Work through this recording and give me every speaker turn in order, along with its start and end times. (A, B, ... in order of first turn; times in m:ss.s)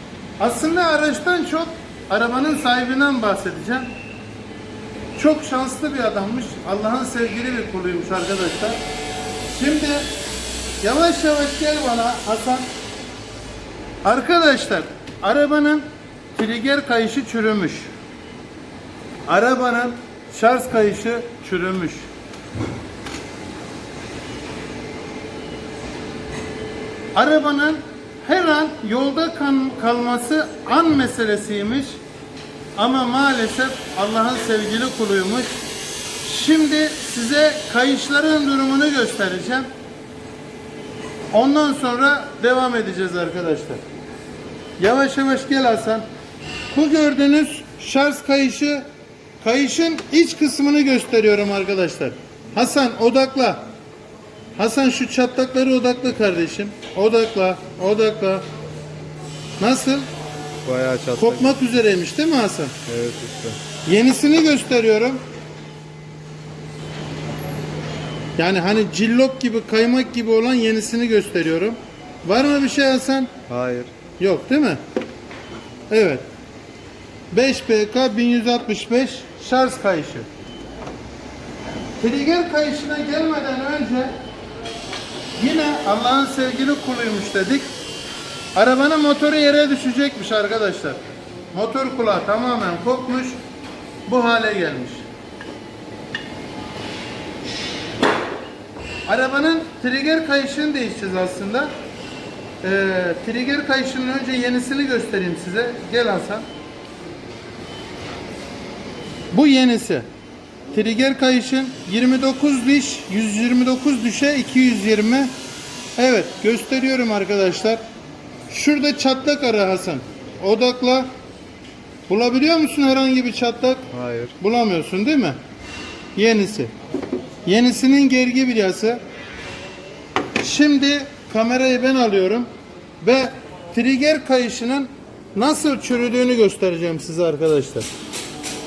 0:00.4-0:03.9 A
0:05.2-0:08.8 A
0:09.5-0:10.0 A
0:10.8-0:12.7 A
0:14.0-0:17.9 A
0:19.3-0:22.1 A
0:27.2-0:32.0 A
0:32.8-0:35.5 A
0:36.2-0:39.7 A
0:41.3-0:43.8 A
0:44.8-0:46.0 A
0:46.7-0:48.8 A
0:49.4-0:53.6 A
0:54.6-0:58.4 A
0:59.6-1:00.0 A
1:00.6-1:01.6 B
1:01.2-1:02.8 A
1:02.9-1:03.6 B
1:03.8-1:05.2 A
1:08.4-1:13.3 A
1:13.5-1:13.9 B
1:14.2-1:14.8 A
1:15.9-1:16.2 A
1:17.3-1:20.3 A
1:22.0-1:24.1 A
1:25.4-1:27.7 A
1:28.6-1:31.0 A
1:31.5-1:33.4 A
1:34.1-1:35.0 A
1:39.1-1:41.7 A
1:42.6-1:46.4 A
1:49.3-1:50.1 A
1:50.7-1:55.3 A
1:56.0-1:57.8 A
1:58.5-2:01.1 A
2:02.1-2:03.9 A
2:03.9-2:04.3 B
2:04.4-2:05.4 A
2:06.2-2:06.7 A
2:07.4-2:09.0 A
2:10.4-2:12.5 A
2:13.0-2:17.9 A